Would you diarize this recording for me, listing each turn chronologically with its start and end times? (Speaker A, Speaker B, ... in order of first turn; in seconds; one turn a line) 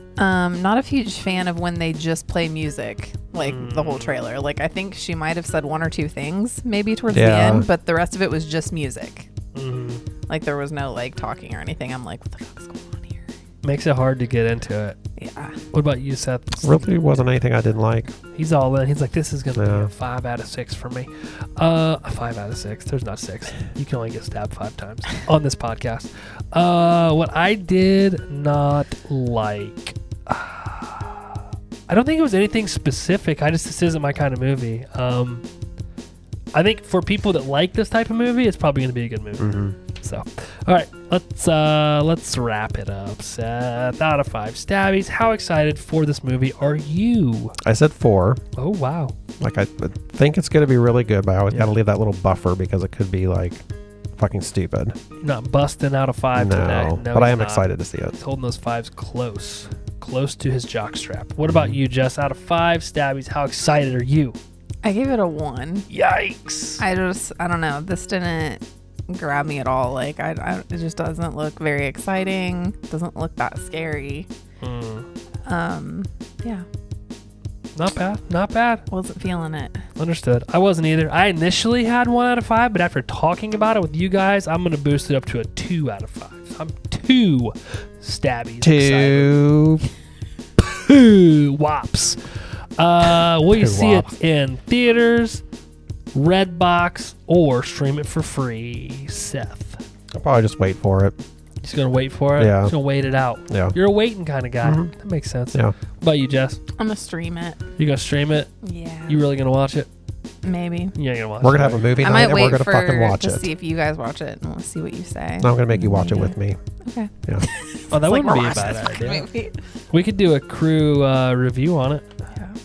Speaker A: 0.2-9.3
Speaker B: 3.4-4.2
Speaker C: 7.1-7.7
Speaker B: 9.5-10.0
Speaker A: 10.3-13.3
Speaker B: 13.6-14.9
Speaker A: 15.2-15.6
Speaker B: 15.7-16.9
Speaker C: 16.6-18.1
Speaker B: 18.3-35.4
Speaker C: 19.5-19.9
Speaker B: 36.5-47.5
Speaker C: 39.4-39.8
Speaker C: 47.6-48.4
Speaker B: 48.5-49.1
Speaker C: 49.4-53.6
Speaker C: 54.2-54.9
Speaker B: 55.2-64.4
Speaker C: 56.3-58.1
Speaker C: 61.4-61.8
Speaker A: 64.8-65.9
Speaker B: 65.9-66.8
Speaker A: 66.8-74.3
Speaker B: 74.6-75.1
Speaker A: 75.5-76.6
Speaker B: 77.8-78.8
Speaker A: 78.9-79.8
Speaker B: 80.0-89.4
Speaker C: 88.6-89.9
Speaker B: 90.6-95.4
Speaker C: 93.5-94.1
Speaker B: 96.1-99.8
Speaker C: 100.1-101.2
Speaker B: 101.6-106.6
Speaker C: 102.4-102.7
Speaker C: 103.5-103.8
Speaker C: 104.6-104.9
Speaker A: 106.8-107.6
Speaker B: 107.8-108.5
Speaker A: 108.6-109.2
Speaker B: 109.1-109.9
Speaker A: 110.4-110.9
Speaker B: 111.0-111.9
Speaker C: 111.4-113.5
Speaker A: 112.0-119.6
Speaker C: 115.4-116.6
Speaker B: 117.9-119.3
Speaker B: 119.9-122.0